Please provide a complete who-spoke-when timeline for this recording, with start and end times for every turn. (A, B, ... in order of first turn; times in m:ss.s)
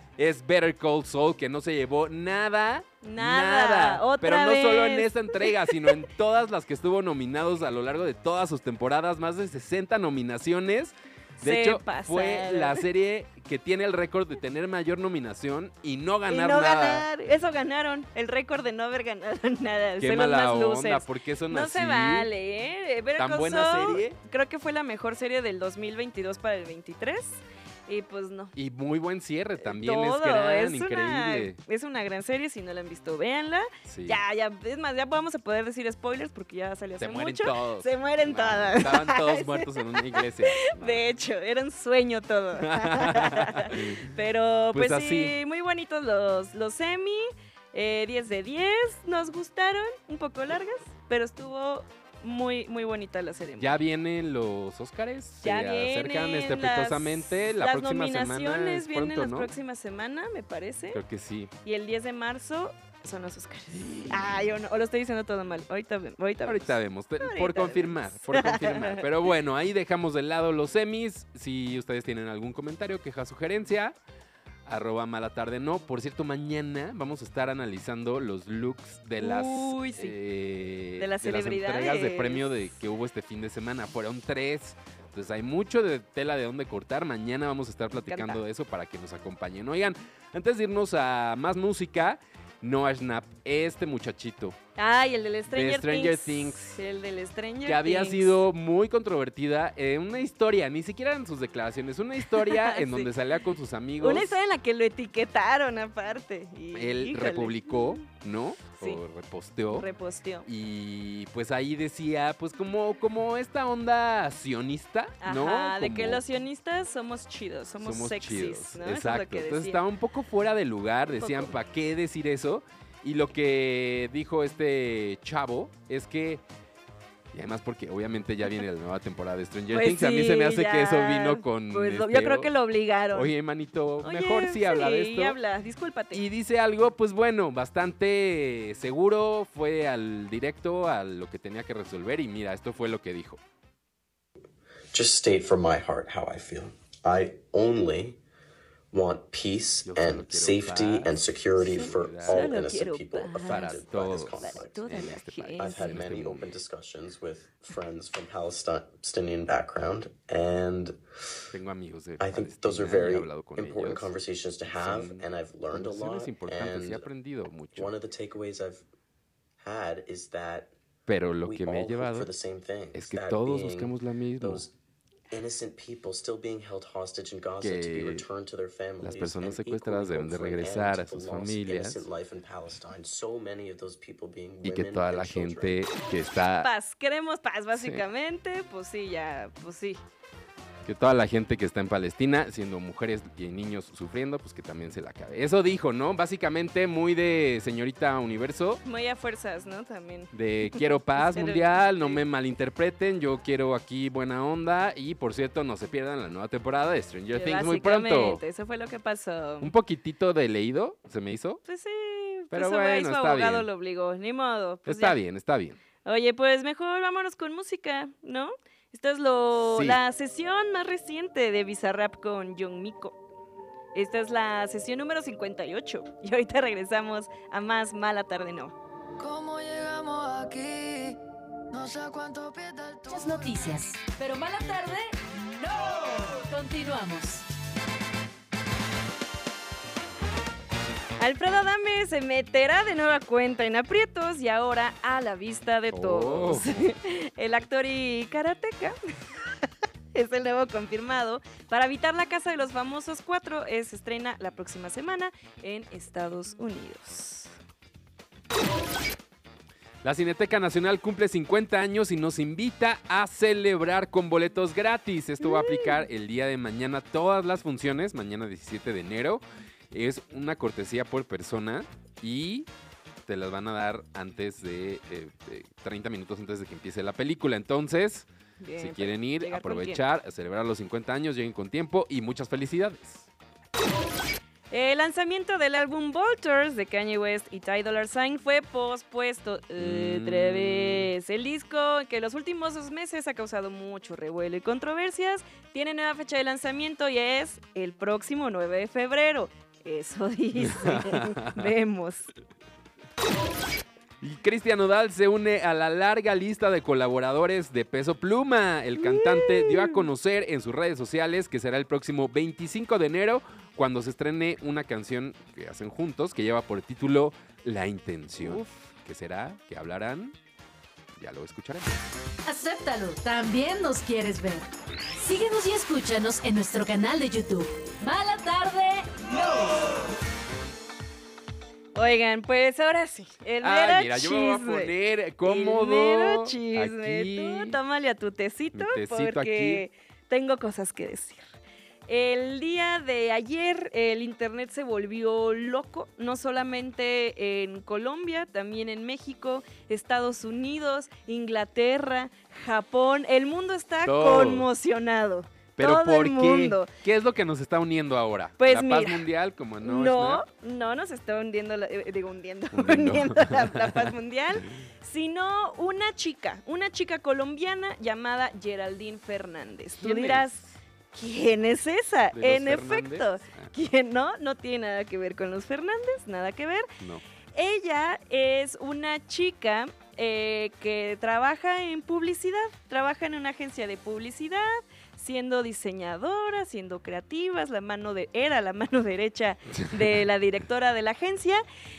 0:00.2-0:17.1 A
0:03.0-0:06.0 B
0:11.4-0:12.8 B
0:16.3-0:28.5 B
0:20.0-0:22.3 A
0:23.2-0:24.2 A
0:28.6-0:31.6 A
0:29.6-0:53.7 B
0:33.9-0:34.2 A
0:37.0-0:41.0 A
0:42.6-0:44.1 A
0:44.7-0:45.3 A
0:53.6-0:59.5 A
0:55.4-1:01.0 B
1:00.9-1:01.5 A
1:01.6-1:09.0 B
1:03.7-1:04.6 A
1:06.4-1:13.9 A
1:14.6-1:34.6 A
1:19.2-1:20.2 B
1:21.0-1:22.5 B
1:28.0-1:28.4 B
1:34.8-1:38.4 B
1:35.5-1:36.8 A
1:37.6-1:44.4 A
1:42.3-1:43.1 B
1:44.0-1:48.0 B
1:46.7-1:49.8 A
1:49.7-1:50.5 B
1:50.4-1:56.2 A
1:55.2-1:59.8 B
1:57.8-2:06.4 A
2:01.2-2:01.5 B
2:07.3-2:12.5 A
2:09.7-2:13.3 B
2:13.1-2:15.4 A
2:14.0-2:16.2 B
2:16.1-2:23.4 A
2:24.9-2:28.2 C
2:28.9-2:41.4 C
2:29.8-2:32.6 A
2:31.6-2:33.9 B
2:33.5-2:36.5 A
2:34.4-2:36.0 B
2:41.5-2:44.1 A
2:42.2-2:47.0 C
2:44.7-2:47.9 A
2:47.7-2:48.8 C
2:49.6-2:50.7 C
2:51.1-2:52.3 A
2:51.4-2:54.7 C
2:52.9-2:54.6 A
2:55.3-3:05.8 C
2:57.6-2:58.2 A
2:59.0-3:02.0 A
3:04.6-3:06.7 A
3:06.6-3:10.0 B
3:07.7-3:08.0 A
3:10.8-3:18.8 A
3:18.8-3:22.2 B
3:20.3-3:28.4 A
3:27.3-3:29.7 B
3:29.6-3:31.6 A
3:31.6-3:35.2 B
3:32.5-3:33.7 A
3:34.8-3:35.8 A
3:36.0-3:43.2 B
3:39.6-3:40.0 A
3:43.9-3:48.7 B
3:49.2-3:51.2 D
3:51.7-3:53.6 D
3:53.1-3:57.4 E
4:01.2-4:09.0 B
4:05.9-4:06.8 A
4:09.6-4:17.5 B
4:20.0-4:32.7 A
4:25.4-4:26.0 B
4:33.3-4:43.3 A
4:38.6-4:40.0 B
4:44.7-5:02.3 B
4:49.8-4:51.1 A
5:00.6-5:01.7 A
5:04.2-5:20.3 A
5:09.0-5:10.0 B
5:21.2-5:21.9 A
5:22.4-5:24.7 E
5:25.2-5:29.9 E
5:31.9-5:41.5 B
5:33.6-5:37.8 A
5:38.7-5:39.8 A
5:42.1-5:56.9 B
5:54.0-5:54.7 A
5:55.8-6:00.4 A
5:58.6-5:59.3 B
5:59.8-6:16.9 B
6:02.7-6:04.1 A
6:10.0-6:10.6 A
6:12.3-6:13.7 A
6:17.5-6:31.6 B